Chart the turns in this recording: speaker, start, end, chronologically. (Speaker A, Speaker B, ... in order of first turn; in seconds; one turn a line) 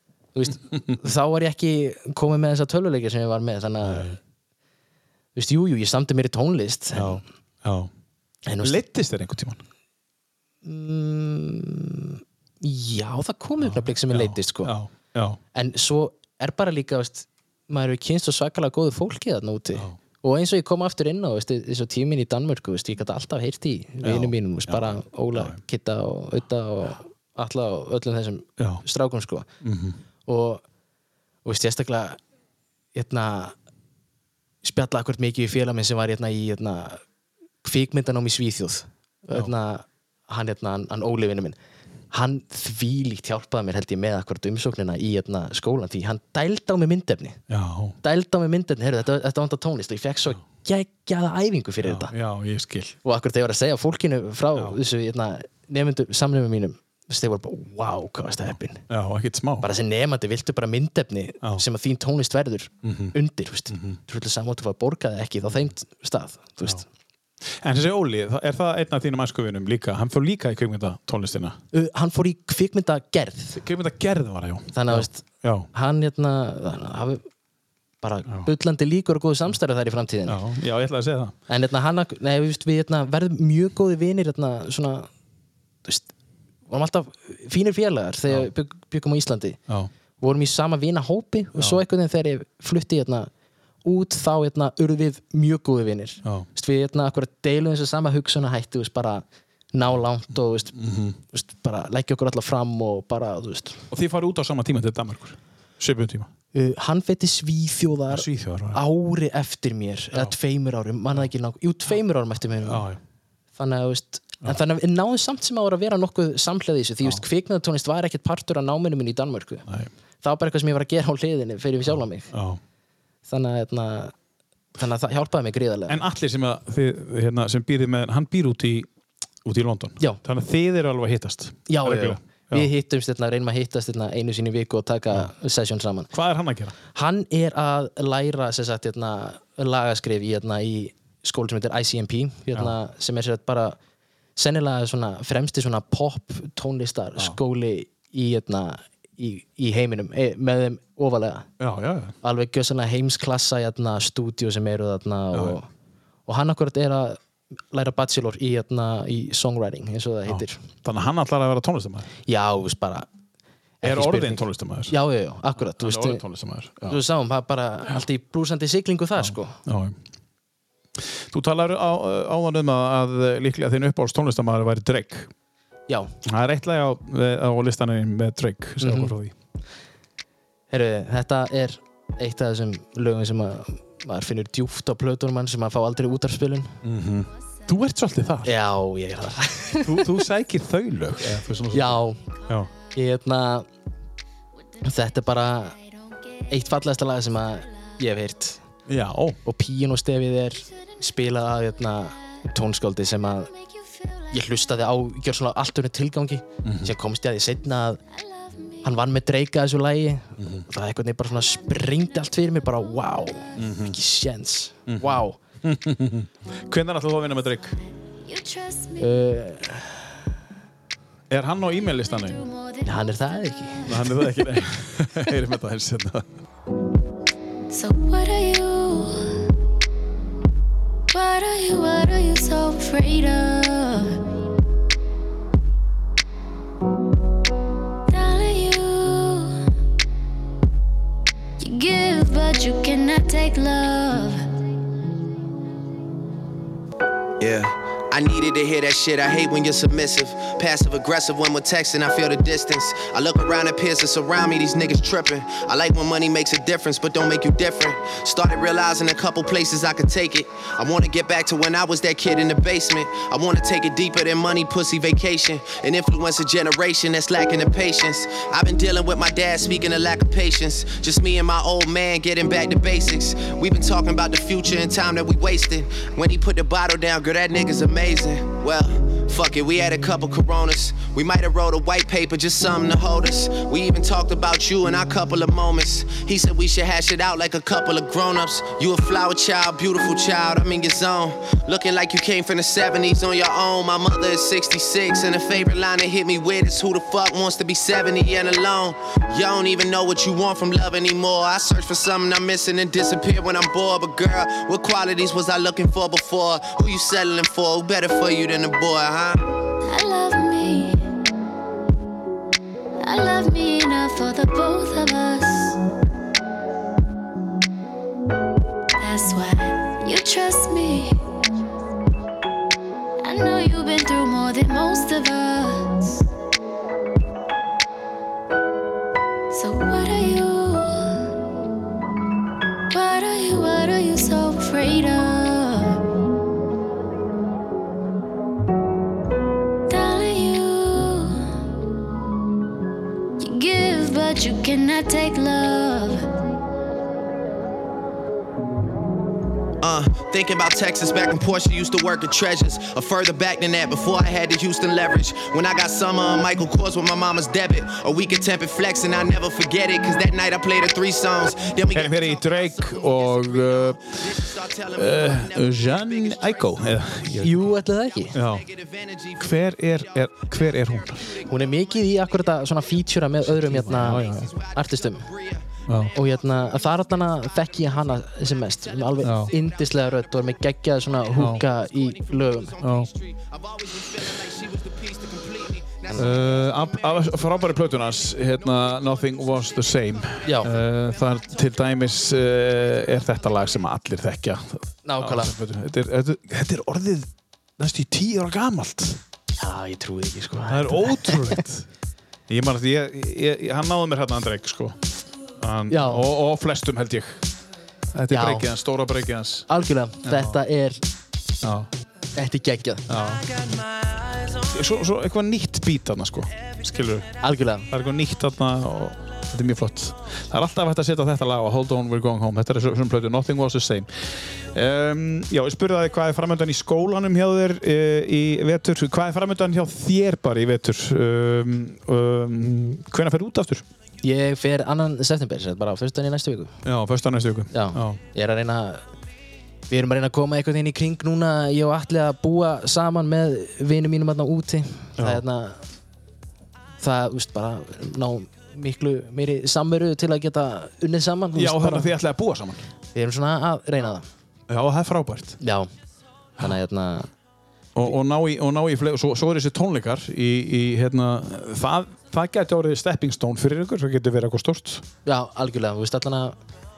Speaker A: 0.3-4.2
Speaker B: 0.7-1.0
Speaker B: 3.8-4.2
Speaker A: 5.3-7.2
Speaker B: 6.9-7.9
Speaker A: 8.4-8.8
Speaker B: 8.6-9.6
Speaker A: 10.6-14.8
Speaker B: 13.6-15.4
Speaker A: 15.5-29.5
Speaker B: 24.0-25.6
Speaker B: 29.6-30.0
Speaker A: 30.3-30.6
Speaker A: 31.4-32.2
Speaker A: 32.9-33.5
Speaker A: 34.6-37.0
Speaker A: 37.6-41.5
Speaker A: 42.1-47.4
Speaker B: 47.5-48.0
Speaker A: 48.0-52.1
Speaker B: 51.8-53.0
Speaker A: 53.0-58.8
Speaker B: 58.9-59.7
Speaker A: 59.6-66.8
Speaker B: 62.8-63.1
Speaker B: 63.7-64.0
Speaker B: 67.4-71.6
Speaker A: 71.7-73.6
Speaker B: 73.5-75.7
Speaker A: 74.7-77.2
Speaker A: 78.0-80.4
Speaker B: 80.3-81.3
Speaker A: 81.5-85.1
Speaker A: 86.7-89.6
Speaker A: 90.2-93.3
Speaker A: 93.8-100.8
Speaker B: 100.7-101.2
Speaker A: 101.3-103.8
Speaker B: 103.9-106.3
Speaker A: 106.5-112.8
Speaker B: 108.1-108.8
Speaker B: 112.6-113.0
Speaker A: 113.6-119.7
Speaker A: 120.2-122.3
Speaker B: 121.9-122.6
Speaker A: 123.3-124.1
Speaker A: 124.8-126.0
Speaker B: 125.9-128.9
Speaker B: 129.4-132.7
Speaker A: 131.7-136.1
Speaker B: 136.1-136.7
Speaker A: 136.9-143.8
Speaker A: 144.3-151.5
Speaker B: 151.6-152.1
Speaker A: 152.2-155.7
Speaker B: 155.3-155.6
Speaker A: 156.3-160.6
Speaker B: 160.3-162.1
Speaker A: 162.3-163.1
Speaker A: 163.8-166.2
Speaker B: 163.8-164.9
Speaker B: 165.8-167.0
Speaker A: 166.8-169.6
Speaker B: 169.2-169.9
Speaker B: 171.0-175.3
Speaker A: 175.9-176.1
Speaker B: 176.2-179.3
Speaker A: 178.8-179.1
Speaker A: 180.7-186.8
Speaker B: 186.8-188.6
Speaker A: 188.4-190.1
Speaker B: 189.8-192.7
Speaker A: 191.7-192.2
Speaker A: 192.9-193.7
Speaker A: 194.8-195.8
Speaker A: 196.5-198.6
Speaker B: 198.9-199.4
Speaker A: 199.4-203.5
Speaker C: 203.7-204.3
Speaker A: 204.3-208.0
Speaker B: 206.6-206.9
Speaker C: 208.2-208.8
Speaker A: 208.8-215.4
Speaker B: 210.4-210.7
Speaker B: 213.6-213.9
Speaker B: 214.9-217.8
Speaker C: 218.2-219.2
Speaker A: 219.0-220.2
Speaker B: 221.3-222.4
Speaker C: 222.2-224.0
Speaker A: 222.8-224.2
Speaker B: 223.8-226.2
Speaker C: 227.7-229.4
Speaker C: 231.1-234.2
Speaker C: 238.1-239.6
Speaker C: 241.6-244.5
Speaker D: 247.4-309.4
Speaker C: 309.9-311.1
Speaker C: 313.0-315.8
Speaker C: 319.0-321.2
Speaker C: 323.2-326.2
Speaker C: 329.5-331.2
Speaker C: 332.9-336.0
Speaker C: 339.9-341.4
Speaker C: 343.4-346.2
Speaker D: 349.8-367.6
Speaker B: 361.9-367.7
Speaker A: 367.4-368.4
Speaker D: 368.2-372.9
Speaker B: 368.3-368.7
Speaker B: 369.4-371.4
Speaker A: 371.5-375.3
Speaker B: 373.6-374.6
Speaker D: 373.8-376.1
Speaker B: 375.9-376.1
Speaker A: 376.1-382.8
Speaker B: 379.2-379.5
Speaker D: 379.4-379.7
Speaker B: 381.3-381.6
Speaker D: 382.0-389.5
Speaker B: 382.8-383.1
Speaker A: 386.1-386.4
Speaker B: 386.1-399.2
Speaker A: 390.4-390.7
Speaker A: 395.0-395.6
Speaker A: 399.6-401.6
Speaker B: 400.7-401.9
Speaker B: 402.5-405.0
Speaker B: 405.6-407.4
Speaker A: 405.9-406.3
Speaker B: 408.1-409.7
Speaker A: 408.3-408.7
Speaker A: 409.7-411.0
Speaker B: 410.2-410.6
Speaker B: 411.6-411.9
Speaker A: 412.3-413.1
Speaker B: 413.1-413.5
Speaker B: 414.6-433.8
Speaker A: 417.4-417.9
Speaker A: 434.2-436.7
Speaker B: 436.8-438.2
Speaker A: 437.7-439.0
Speaker A: 439.9-445.8
Speaker B: 445.2-445.4
Speaker A: 447.0-452.1
Speaker B: 451.6-452.9
Speaker A: 453.1-454.2
Speaker B: 454.7-455.6
Speaker A: 455.6-455.9
Speaker A: 456.6-457.3
Speaker B: 457.9-465.0
Speaker A: 465.2-466.6